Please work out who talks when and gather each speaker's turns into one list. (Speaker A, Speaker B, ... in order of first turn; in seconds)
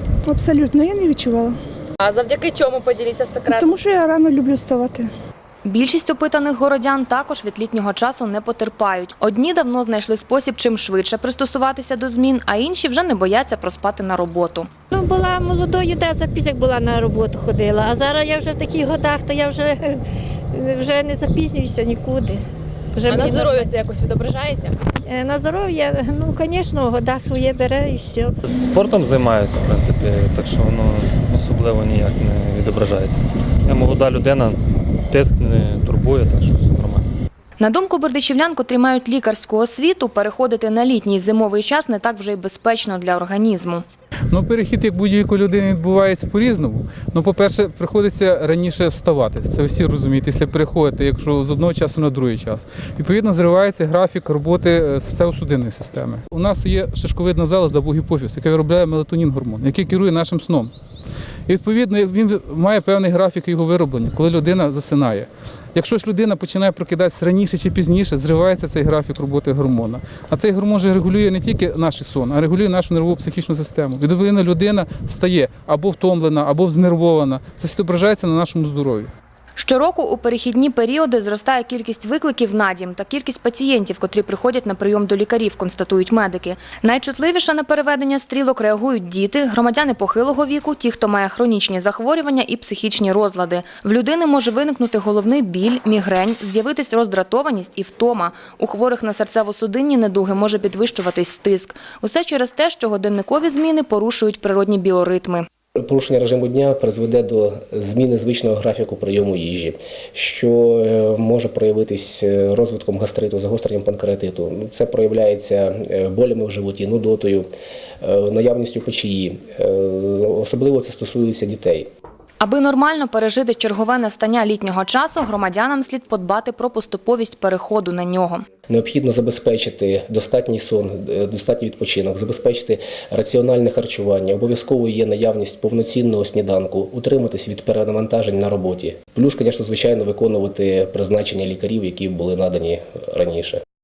Speaker A: 0.3-1.6, 3.5-5.1
Speaker B: 2.0-3.7, 23.1-24.8
Speaker C: 5.6-14.7, 37.6-43.8, 79.6-105.5, 122.4-128.4
Speaker D: 14.9-22.4, 22.9-23.8, 25.1-28.4
Speaker E: 28.5-34.6, 35.1-37.1
Speaker F: 44.3-60.7, 61.5-79.1
Speaker G: 105.8-117.5, 118.0-121.9, 128.7-143.6